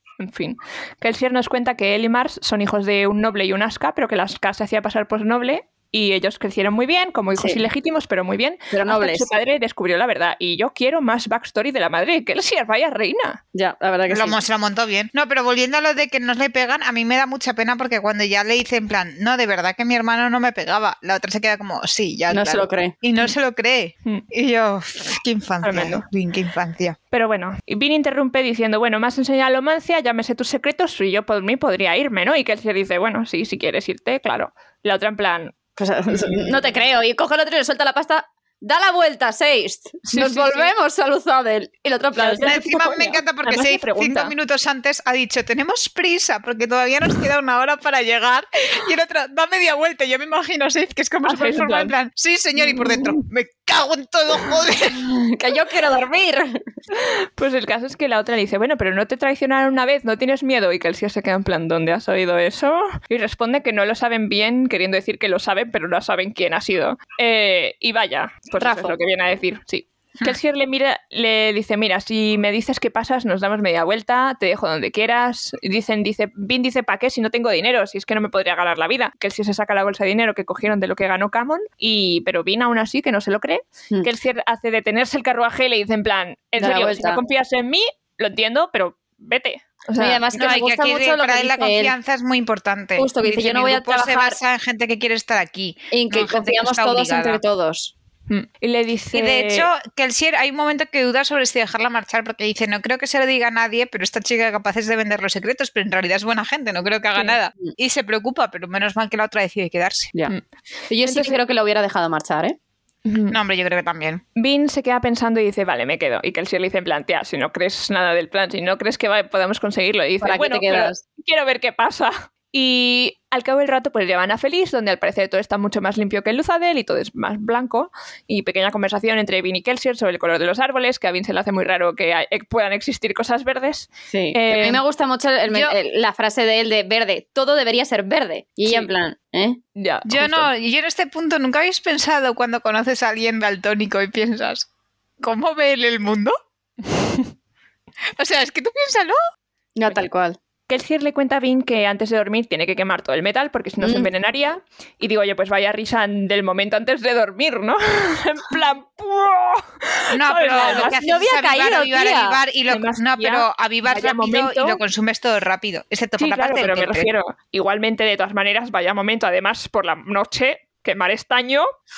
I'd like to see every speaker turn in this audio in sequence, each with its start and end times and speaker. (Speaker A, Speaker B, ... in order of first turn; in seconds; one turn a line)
Speaker A: 0.2-13.4
Speaker B: 8.7-9.3
Speaker B: 13.5-14.4
Speaker C: 14.1-27.0
Speaker B: 22.3-22.9
Speaker A: 25.6-26.0
Speaker A: 27.1-35.5
Speaker B: 35.8-42.8
Speaker A: 36.1-36.6
Speaker A: 40.1-40.7
Speaker A: 42.1-44.3
Speaker C: 42.4-55.0
Speaker A: 51.2-51.9
Speaker A: 52.6-53.2
Speaker B: 54.9-56.6
Speaker A: 56.9-90.2
Speaker B: 68.6-69.0
Speaker B: 86.6-87.2
Speaker B: 90.0-91.9
Speaker C: 90.3-97.4
Speaker B: 93.0-94.4
Speaker B: 95.9-97.9
Speaker A: 98.3-99.7
Speaker C: 99.1-110.1
Speaker B: 110.9-112.5
Speaker A: 111.0-111.4
Speaker A: 113.0-113.4
Speaker C: 113.3-114.2
Speaker A: 114.3-134.8
Speaker B: 120.2-121.0
Speaker B: 134.1-139.6
Speaker A: 138.6-138.9
Speaker A: 139.8-140.5
Speaker C: 140.1-144.7
Speaker C: 145.2-146.3
Speaker C: 148.2-149.2
Speaker B: 149.8-150.4
Speaker A: 150.7-161.0
Speaker B: 153.8-154.1
Speaker C: 160.1-167.1
Speaker B: 160.7-162.4
Speaker A: 162.7-164.8
Speaker A: 166.2-171.7